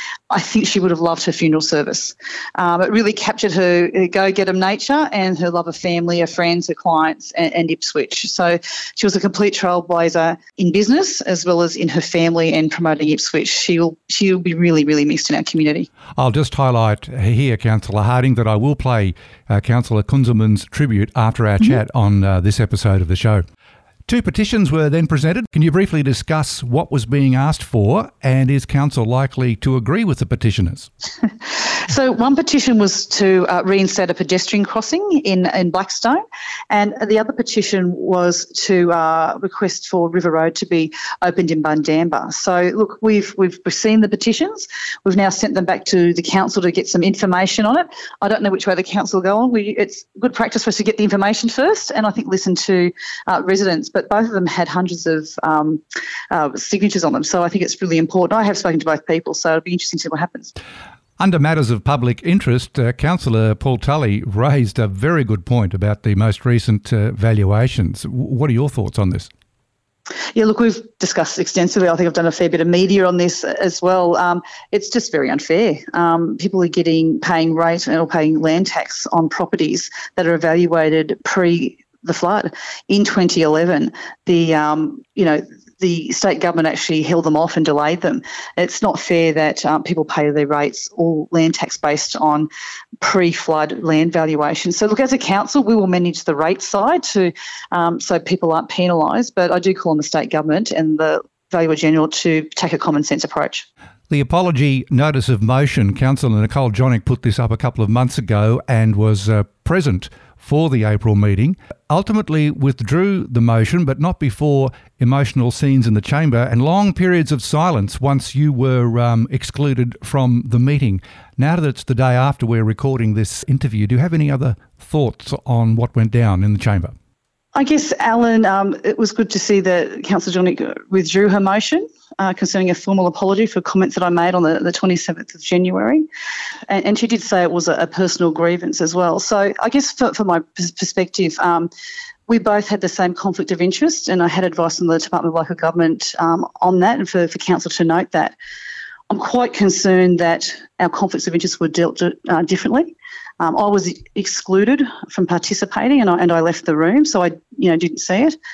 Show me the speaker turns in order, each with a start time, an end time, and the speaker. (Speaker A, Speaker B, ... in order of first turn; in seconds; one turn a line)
Speaker A: 0.3-15.9
Speaker B: 16.2-23.4
Speaker B: 24.1-30.9
Speaker A: 31.9-60.5
Speaker B: 61.2-69.3
Speaker A: 70.3-92.5
Speaker A: 93.0-103.7
Speaker B: 104.1-126.9
Speaker A: 127.5-136.0
Speaker A: 136.7-141.7
Speaker A: 142.3-148.3
Speaker A: 149.1-158.3